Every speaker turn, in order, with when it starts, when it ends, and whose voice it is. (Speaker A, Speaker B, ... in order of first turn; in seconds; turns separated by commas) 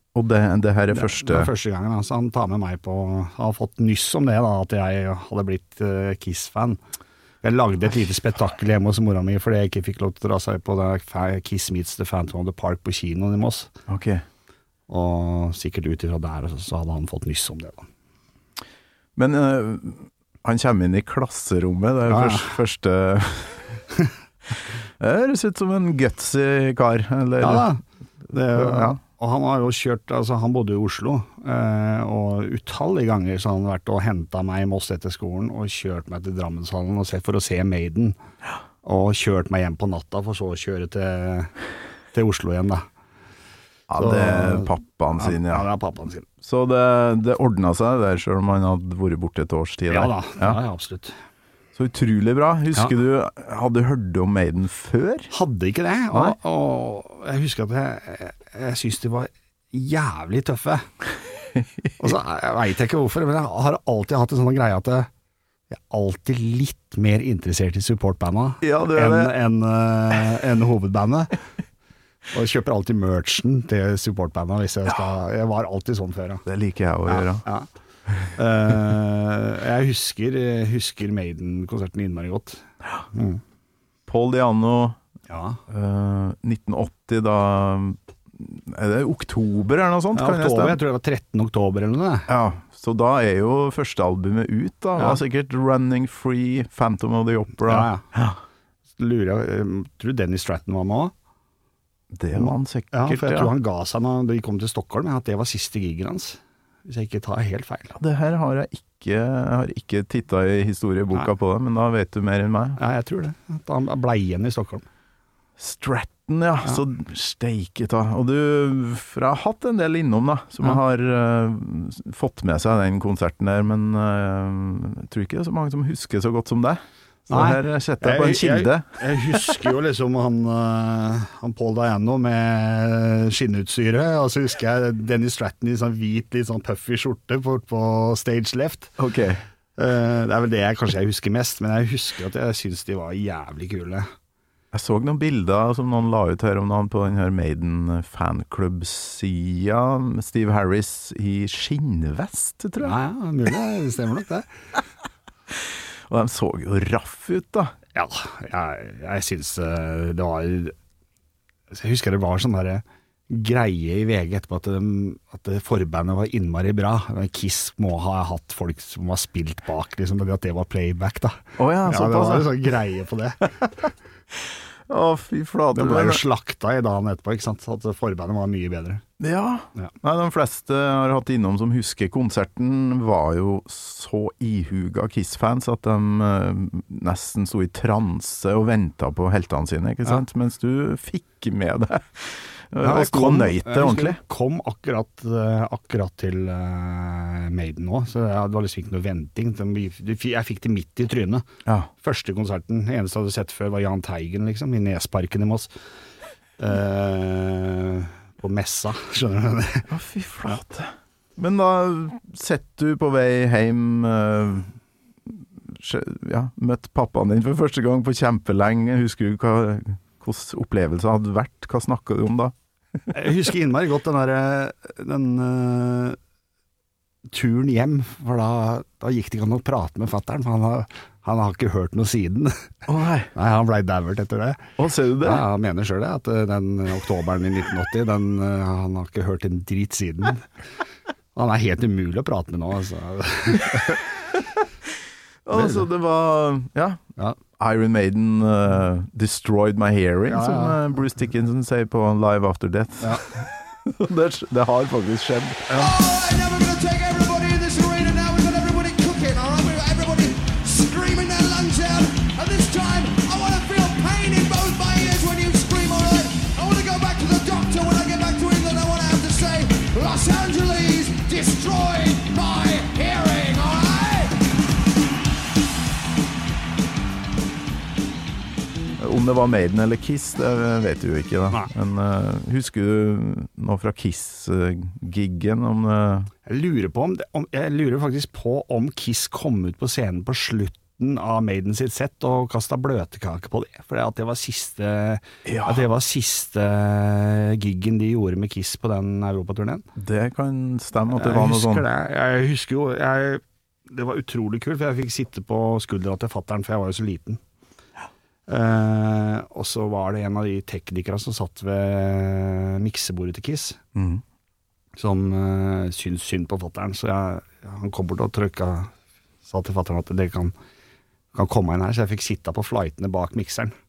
Speaker A: 0.1-1.5, Speaker B: 0.9-6.8, Speaker B: 7.4-13.7, Speaker A: 13.9-14.2, Speaker B: 14.9-17.9, Speaker A: 19.2-23.7, Speaker B: 22.1-22.6, Speaker A: 25.0-27.7, Speaker B: 27.4-38.2, Speaker A: 28.5-29.0, Speaker B: 38.8-41.5, Speaker B: 42.1-42.9, Speaker A: 43.9-45.6, Speaker B: 44.0-46.3, Speaker A: 46.4-50.6, Speaker B: 49.9-51.2, Speaker A: 51.8-55.3, Speaker B: 55.3-60.9, Speaker B: 62.0-65.1, Speaker B: 65.7-71.4, Speaker A: 68.6-69.3, Speaker B: 72.3-76.5, Speaker A: 76.5-77.5, Speaker B: 77.1-77.7, Speaker B: 78.4-83.4, Speaker A: 84.1-85.0, Speaker B: 85.3-85.6, Speaker A: 85.7-90.8, Speaker B: 90.2-92.3, Speaker A: 92.3-98.4, Speaker B: 97.7-98.0, Speaker B: 99.0-101.1, Speaker A: 102.2-103.5, Speaker B: 102.3-107.9, Speaker A: 107.9-112.8, Speaker B: 112.8-114.8, Speaker A: 115.6-129.5, Speaker B: 127.3-138.9, Speaker A: 139.0-139.4, Speaker B: 139.8-144.1, Speaker A: 144.7-153.0, Speaker B: 152.8-154.5, Speaker A: 156.1-157.7, Speaker B: 157.9-160.8, Speaker B: 161.7-173.6, Speaker A: 171.6-172.5, Speaker A: 174.3-176.2, Speaker B: 175.7-179.0, Speaker A: 179.2-194.2, Speaker B: 192.8-201.5, Speaker B: 202.0-205.7, Speaker B: 206.6-209.9, Speaker A: 209.9-214.7, Speaker A: 215.3-222.5, Speaker B: 223.1-226.2, Speaker B: 227.3-232.7, Speaker A: 232.9-233.3, Speaker B: 233.3-234.7, Speaker A: 234.8-235.4, Speaker B: 235.2-240.5, Speaker B: 241.3-244.0, Speaker A: 245.4-247.0, Speaker B: 245.5-245.8, Speaker A: 247.6-255.7, Speaker B: 250.3-250.8, Speaker C: 255.7-274.4, Speaker A: 279.0-286.3, Speaker B: 286.4-299.9, Speaker A: 295.5-295.8, Speaker A: 300.0-301.9, Speaker B: 301.1-307.4, Speaker B: 308.5-313.8, Speaker A: 313.9-314.2, Speaker B: 315.0-318.9, Speaker B: 319.4-320.5, Speaker B: 321.3-323.8